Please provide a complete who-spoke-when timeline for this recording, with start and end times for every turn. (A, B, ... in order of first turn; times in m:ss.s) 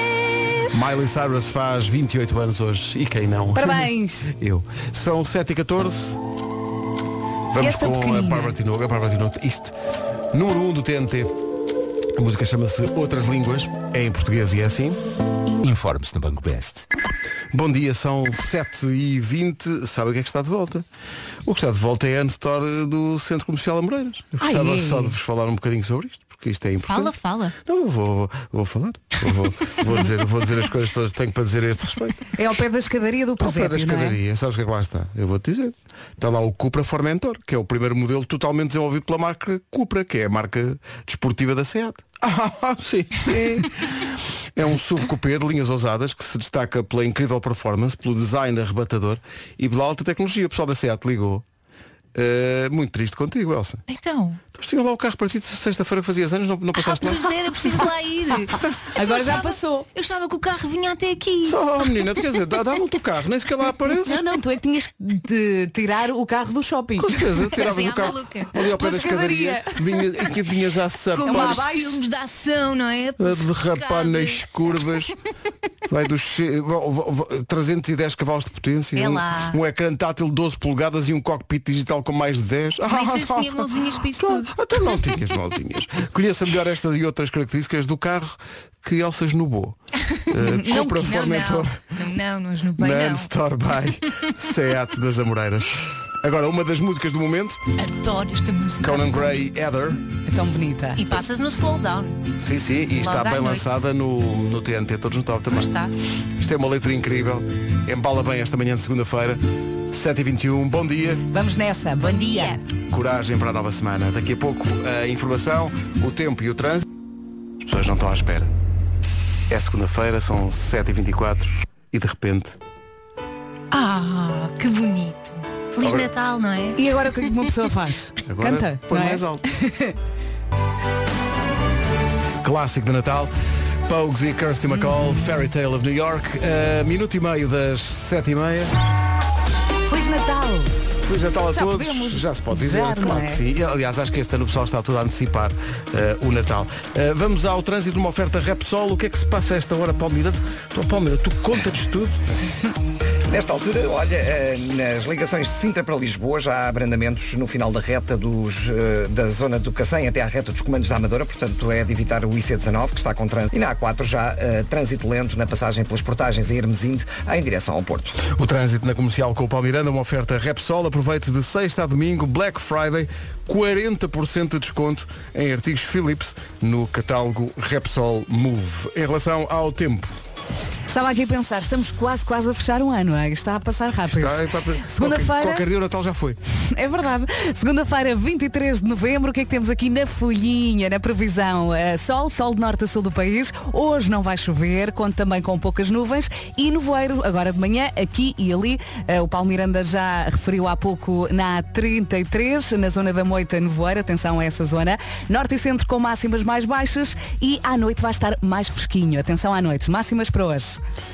0:00.7-0:06.2 A
0:03.5-0:04.3 B
0:07.5-0:09.7 A
0:07.6-0:08.6 B
0:10.3-0:11.4 A
0:12.2-0:15.0 A
0:17.5-0:20.8 A
0:21.4-0:32.3 A
0:24.4-0:25.2 B
0:26.9-0:27.5 C
0:32.4-0:34.2 B
0:33.4-0:51.4 A
0:52.1-0:53.8 A
0:53.9-0:54.4 C
0:54.5-0:57.7 A
0:56.8-1:01.6 C
0:59.0-0:59.9 B
1:01.4-1:04.2 A
1:04.1-1:07.2 B
1:07.0-1:11.7 A
1:07.6-1:08.7 C
1:08.8-1:09.8 B
1:11.1-1:14.4 C
1:11.2-1:12.0 B
1:13.2-1:15.1 A
1:15.9-1:31.8 A
1:19.0-1:19.6 C
1:22.8-1:24.5 C
1:30.6-1:31.2 B
1:30.8-1:33.3 C
1:32.8-1:37.6 A
1:37.8-1:39.3 C
1:38.8-1:40.0 A
1:40.3-1:41.2 B
1:41.0-1:42.2 C
1:42.4-1:45.7 A
1:43.0-1:43.7 C
1:45.5-1:45.9 C
1:46.4-1:51.2 A
1:51.3-1:52.6 B
1:52.0-1:52.6 C
1:52.9-1:56.9 A
1:57.6-1:58.5 A
1:59.5-2:02.6 A
2:03.7-2:06.8 C
2:05.8-2:06.1 A
2:06.8-2:10.0 B
2:08.3-2:09.4 A
2:12.4-2:13.3 A
2:13.9-2:18.7 A
2:19.8-2:20.8 B
2:21.0-2:32.2 A
2:21.5-2:23.4 B
2:33.3-2:48.2 D
2:48.2-3:00.1 A
3:00.9-3:05.7 B
3:04.0-3:06.4 A
3:06.7-3:30.8 B